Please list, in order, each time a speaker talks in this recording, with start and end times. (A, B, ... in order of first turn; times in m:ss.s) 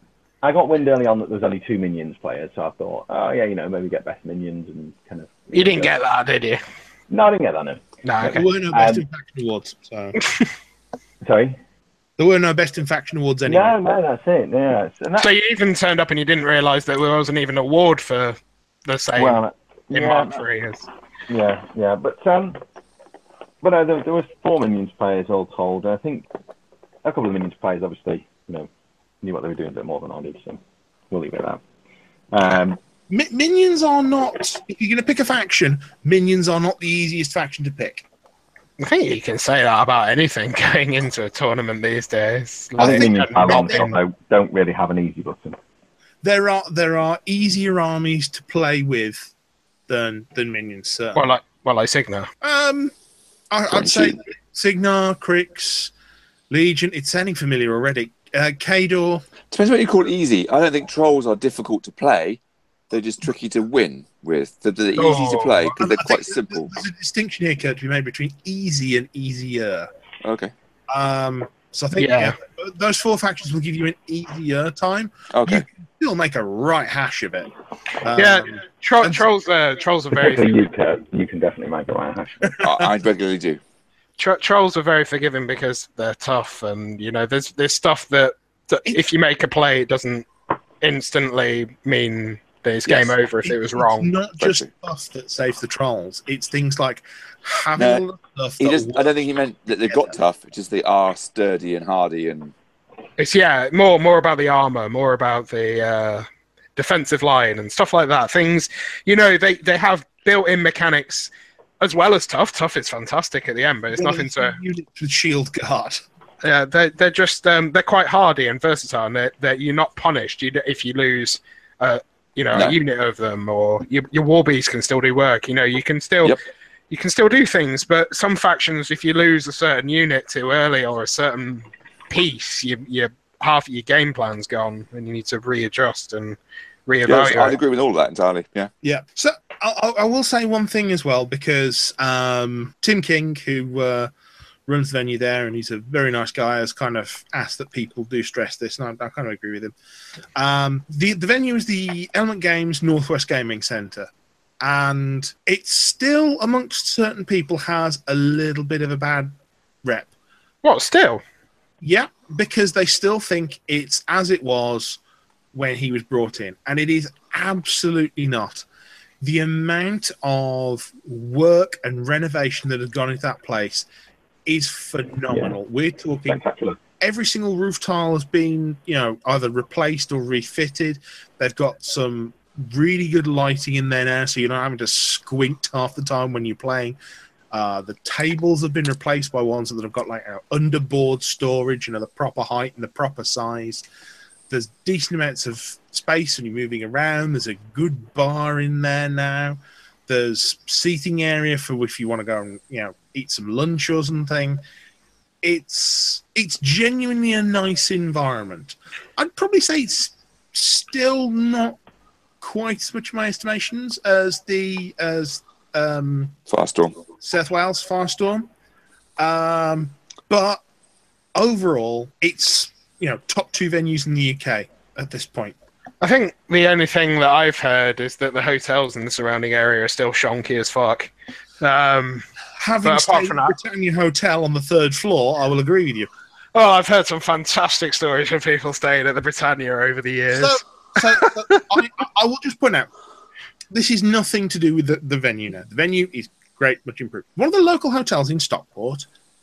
0:00.4-0:05.9 A
0:05.5-0:06.6 B
0:07.1-0:09.0 A
0:08.0-0:08.4 B
0:08.2-0:10.2 C
0:11.2-0:11.6 A
0:12.2-0:13.7 C
0:13.4-0:15.3 A
0:15.2-0:20.9 B
0:19.2-0:20.4 A
0:21.3-0:22.6 A
0:23.6-0:26.3 A
0:27.0-0:28.7 A
0:29.2-0:31.6 A
0:32.3-0:32.8 A
0:33.1-0:38.0 C
0:38.8-0:43.9 B
0:42.8-0:45.6 A
0:42.8-0:43.9 C
0:46.2-0:49.3 C
0:49.9-0:51.2 C
0:51.1-0:52.3 B
0:52.4-0:52.9 C
0:53.5-0:55.9 C
0:53.7-0:54.2 D
0:56.5-0:59.2 C
0:59.5-1:02.4 D
1:02.9-1:06.7 D
1:05.0-1:05.7 B
1:05.8-1:09.9 C
1:10.2-1:10.5 D
1:10.9-1:19.2 C
1:12.0-1:12.4 B
1:15.3-1:15.6 D
1:18.1-1:20.7 B
1:20.1-1:22.6 A
1:22.4-1:22.8 C
1:22.6-1:23.6 D
1:24.2-1:30.3 B
1:30.8-1:34.1 B
1:32.9-1:33.1 D
1:33.4-1:39.2 C
1:34.4-1:34.7 D
1:37.8-1:38.0 D
1:38.6-1:42.5 D
1:39.9-1:40.1 C
1:43.2-1:54.6 B
1:53.9-1:56.0 C
1:56.4-2:06.4 B
2:06.9-2:17.6 B
2:17.0-2:18.7 D
2:18.8-2:24.1 C
2:24.7-2:29.7 C
2:30.4-2:34.1 C
2:34.6-2:39.3 C
2:39.8-2:40.1 C
2:40.6-2:41.2 B
2:41.8-2:45.0 C
2:45.5-2:48.6 C
2:49.2-2:53.9 C
2:54.4-2:56.4 C
2:55.3-2:55.5 A
2:56.3-2:56.8 A
2:57.0-3:07.0 C
3:07.5-3:13.8 C
3:14.5-3:24.6 C
3:25.4-3:31.8 C
3:32.4-3:36.3 C
3:36.5-3:36.9 D
3:37.2-3:38.5 C
3:39.2-3:40.6 C
3:41.3-3:45.6 C
3:46.0-3:52.2 B
3:52.6-3:56.1 C
3:52.8-3:53.6 B
3:56.5-4:00.6 B
4:00.3-4:02.9 C
4:03.7-4:09.0 C